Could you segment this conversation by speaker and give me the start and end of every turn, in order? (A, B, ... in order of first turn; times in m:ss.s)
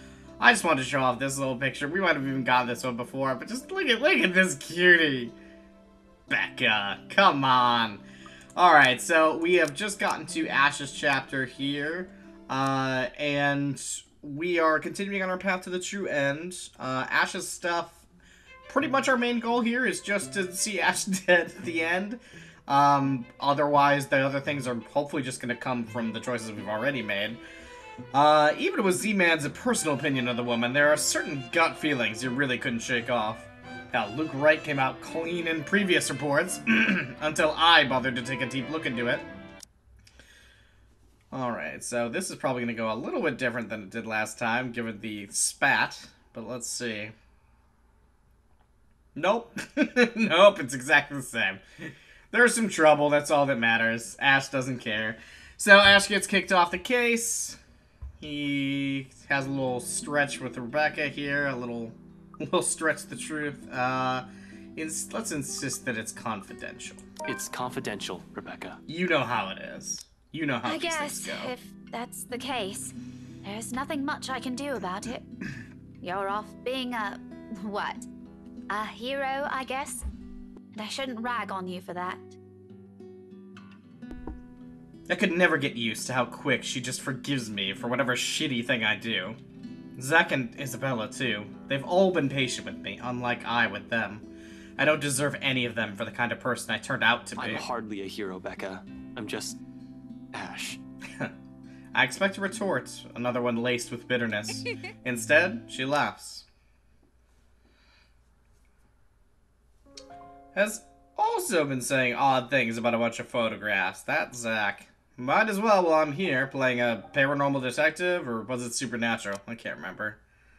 0:00.4-0:05.3 A
0:06.3-0:08.0 A
0:08.6-0:18.0 A
0:18.7-0:27.4 A
0:28.1-0:39.3 A
0:41.3-0:47.1 A
0:49.2-0:57.6 A
0:58.2-1:07.0 A
1:07.2-1:08.8 B
1:08.9-1:11.5 A
1:10.6-1:15.3 C
1:16.0-1:18.0 C
1:18.7-1:20.0 C
1:20.8-1:22.4 C
1:25.1-1:29.4 A
1:30.0-1:34.2 A
1:34.8-1:37.7 A
1:37.4-1:39.6 B
1:40.3-1:40.8 B
1:41.9-1:46.4 A
1:50.6-2:00.2 A